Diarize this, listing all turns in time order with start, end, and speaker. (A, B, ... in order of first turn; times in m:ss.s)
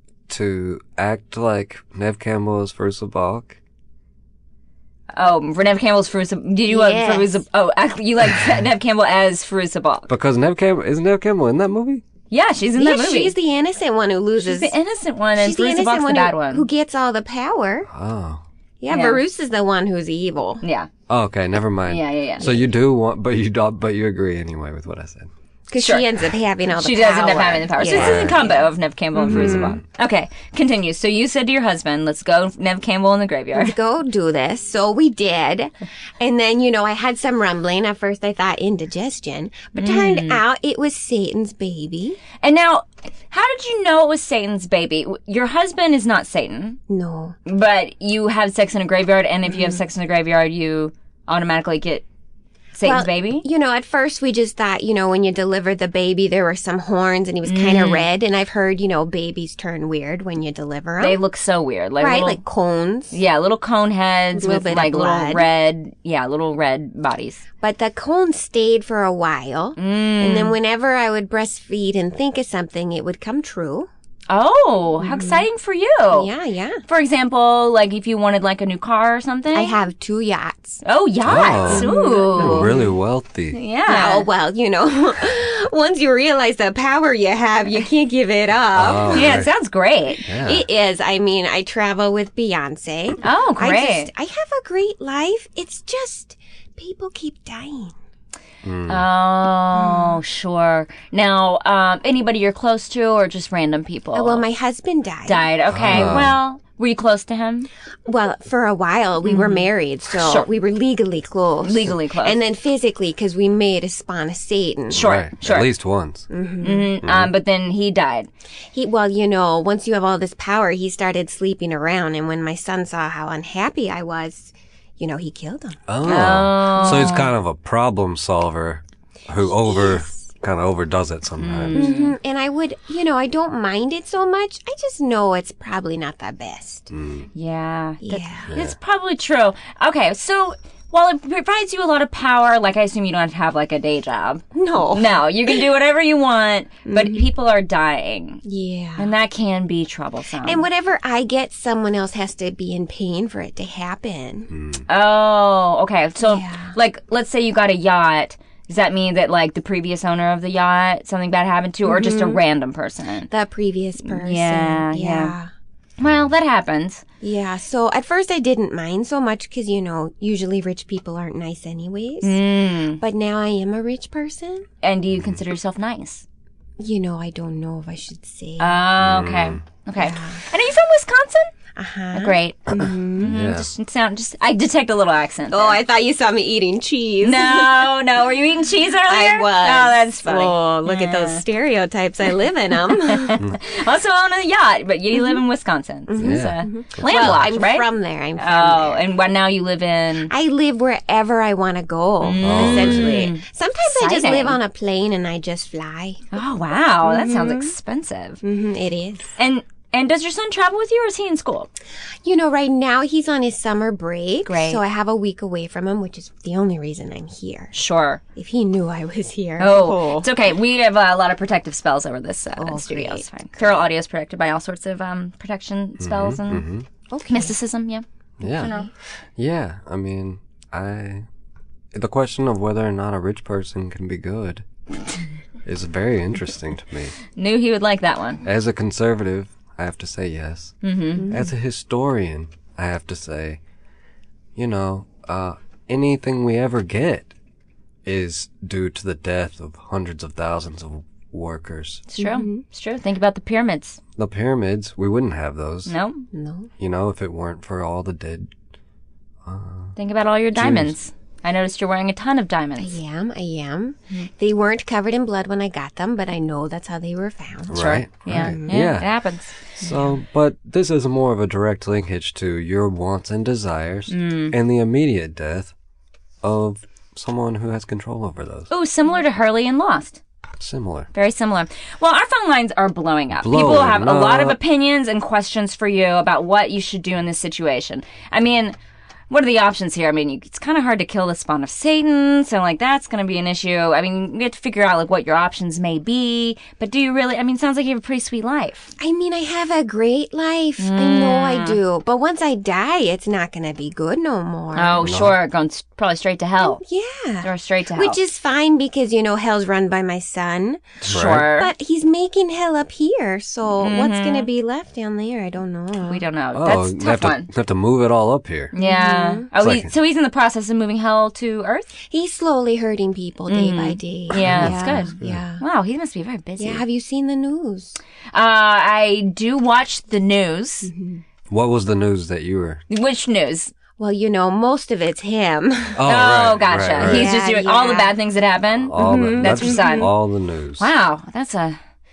0:00.3-0:03.6 A
0:05.1-0:10.1 B
0:06.7-0:07.4 C
0:10.1-0:12.0 A
0:12.3-0:13.4 B
0:12.8-0:14.7 C
0:14.4-0:16.7 B
0:15.4-0:17.9 C
0:17.9-0:18.4 A
0:18.8-0:20.6 C
0:18.9-0:19.2 B
0:20.6-0:20.9 B
0:21.1-0:25.3 A
0:21.9-0:22.5 B
0:25.7-0:29.8 C
0:25.8-0:26.1 B
0:26.8-0:33.7 B
0:27.8-0:28.4 A
0:29.3-0:29.8 A
0:33.5-0:42.2 C
0:39.8-0:40.4 B
0:42.4-0:46.8 B
0:46.9-0:47.4 C
0:47.5-0:52.0 B
0:49.5-0:49.8 C
0:52.8-0:53.4 B
0:52.8-1:01.2 C
0:57.4-0:58.1 B
1:01.0-1:02.4 B
1:02.0-1:03.2 C
1:03.1-1:07.4 B
1:04.3-1:05.5 C
1:07.6-1:13.9 C
1:09.8-1:10.6 B
1:14.3-1:16.3 B
1:15.0-1:15.4 C
1:16.1-1:16.8 C
1:16.9-1:19.8 B
1:19.5-1:20.8 C
1:20.8-1:22.7 B
1:21.2-1:23.6 A
1:21.3-1:22.9 C
1:23.5-1:24.3 B
1:23.9-1:29.5 C
1:28.7-1:29.5 A
1:29.1-1:30.3 B
1:30.3-1:30.6 A
1:30.4-1:38.0 C
1:33.2-1:34.1 B
1:38.6-1:39.1 A
1:38.9-1:44.5 B
1:39.8-1:40.2 C
1:44.1-1:46.2 C
1:45.2-1:47.7 B
1:45.7-1:46.4 A
1:48.1-1:55.0 C
1:49.2-1:50.5 B
1:51.6-1:52.4 B
1:54.9-1:56.3 A
1:54.9-1:55.7 B
1:56.3-1:57.0 C
1:56.6-1:58.3 B
1:57.0-1:57.3 A
1:58.7-2:07.2 C
2:05.9-2:11.9 A
2:06.0-2:07.3 B
2:09.5-2:10.2 C
2:11.4-2:12.2 B
2:11.7-2:16.9 C
2:16.9-2:17.3 A
2:17.4-2:28.4 B
2:18.0-2:18.5 C
2:18.5-2:18.8 A
2:24.5-2:25.6 C
2:26.9-2:27.3 C
2:28.4-2:29.1 C
2:29.0-2:30.7 B
2:30.4-2:34.5 C
2:34.5-2:34.8 A
2:34.9-2:43.3 B
2:36.2-2:36.8 C
2:41.9-2:42.4 C
2:43.3-2:45.5 C
2:44.0-2:45.4 B
2:46.0-2:47.0 B
2:47.2-2:52.4 C
2:52.2-2:53.0 B
2:53.0-2:54.7 C
2:54.8-2:56.2 B
2:55.1-2:55.4 A
2:56.8-2:58.9 C
2:58.6-3:01.5 B
2:59.0-2:59.6 A
3:00.0-3:00.4 C
3:01.8-3:03.4 C
3:02.1-3:05.8 B
3:03.2-3:03.7 A
3:05.5-3:07.9 C
3:07.2-3:11.4 B
3:09.1-3:13.4 C
3:13.1-3:20.3 B
3:15.1-3:15.4 C
3:16.1-3:19.1 C
3:16.2-3:17.4 A
3:20.3-3:26.3 C
3:22.2-3:24.6 B
3:22.4-3:23.2 A
3:26.3-3:28.4 B
3:27.0-3:27.7 C
3:28.4-3:29.3 C
3:29.4-3:31.7 B
3:32.2-3:37.8 C
3:34.4-3:34.8 B
3:37.7-3:38.2 B
3:38.4-3:40.3 C
3:39.6-3:46.7 B
3:42.6-3:43.3 C
3:46.0-3:46.9 A
3:47.1-3:47.6 C
3:47.3-3:48.0 B
3:48.4-3:48.7 A
3:48.4-3:48.9 C
3:48.6-3:48.9 B
3:49.4-3:51.3 A
3:51.9-3:54.6 A
3:55.6-3:57.1 A
3:57.4-3:58.4 B
3:58.4-4:00.8 A
4:00.8-4:01.3 B
4:01.2-4:01.5 C
4:01.3-4:03.6 A
4:04.6-4:07.3 A
4:08.0-4:12.0 A
4:12.1-4:14.0 B
4:12.2-4:12.6 C
4:14.2-4:15.9 A
4:15.9-4:16.3 B
4:16.3-4:16.7 C
4:16.8-4:18.5 A
4:19.4-4:20.0 A
4:20.0-4:23.0 B
4:20.6-4:21.0 A
4:22.8-4:28.9 C
4:27.7-4:29.2 A
4:27.7-4:29.7 B
4:29.8-4:35.7 A
4:34.1-4:34.6 B
4:36.4-4:38.7 A
4:38.7-4:40.2 B
4:40.6-4:41.1 A
4:41.1-4:48.8 B
4:43.4-4:44.6 A
4:49.3-4:58.9 B
4:59.0-5:05.0 C
5:00.8-5:01.8 B
5:04.8-5:06.8 B
5:05.0-5:05.4 A
5:06.6-5:16.2 C
5:07.4-5:08.2 B
5:11.0-5:11.7 B
5:11.0-5:11.5 A
5:13.8-5:14.5 B
5:16.1-5:17.5 B
5:16.5-5:18.7 A
5:18.7-5:21.9 B
5:18.8-5:19.5 C
5:19.6-5:19.9 A
5:22.0-5:25.6 C
5:23.5-5:26.8 B
5:24.4-5:25.4 A
5:26.6-5:28.0 C
5:28.3-5:30.9 B
5:30.8-5:31.2 C
5:31.5-5:32.8 A
5:32.9-5:33.7 B
5:34.0-5:36.0 C
5:36.0-5:37.3 A
5:36.0-5:40.1 B
5:37.0-5:38.2 C
5:38.8-5:40.9 A
5:39.0-5:40.1 C
5:40.8-5:41.8 B